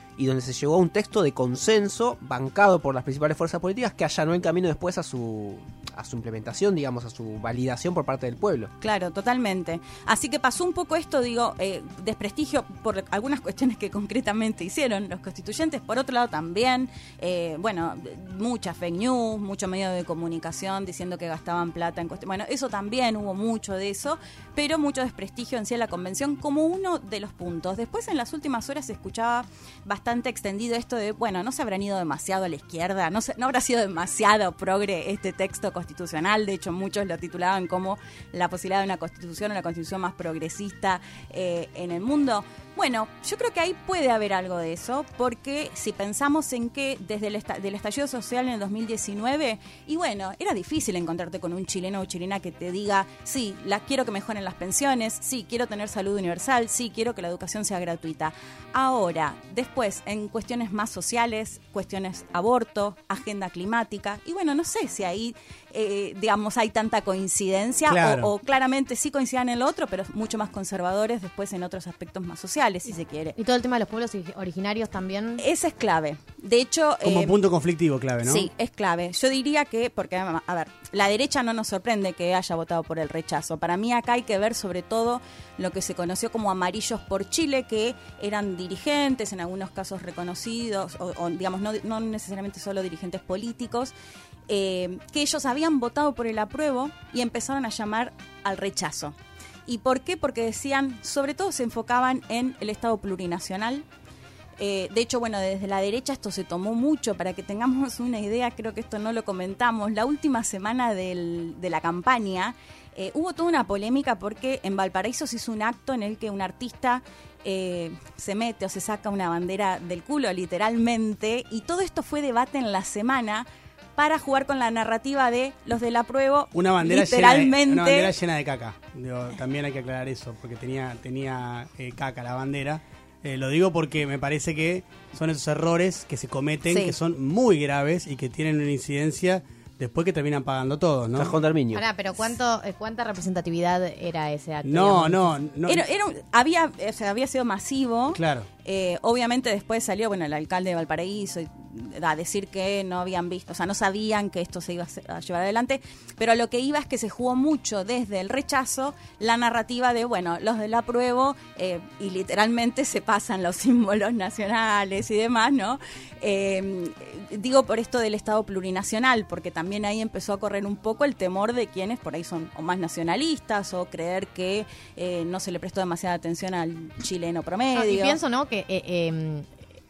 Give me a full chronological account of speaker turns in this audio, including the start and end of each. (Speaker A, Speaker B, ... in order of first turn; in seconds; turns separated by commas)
Speaker A: 0.2-8.7, Speaker B: 8.8-73.4, Speaker C: 67.9-68.3, Speaker D: 73.3-75.4, Speaker B: 75.4-77.4, Speaker C: 77.0-78.5, Speaker B: 78.2-93.9, Speaker B: 94.5-99.1, Speaker B: 99.7-103.8, Speaker B: 104.6-128.1, Speaker C: 126.5-141.3, Speaker B: 136.7-136.9, Speaker A: 141.1-141.8, Speaker D: 141.7-145.4, Speaker C: 144.6-145.8, Speaker B: 145.7-178.2, Speaker C: 148.1-148.5, Speaker D: 177.7-179.5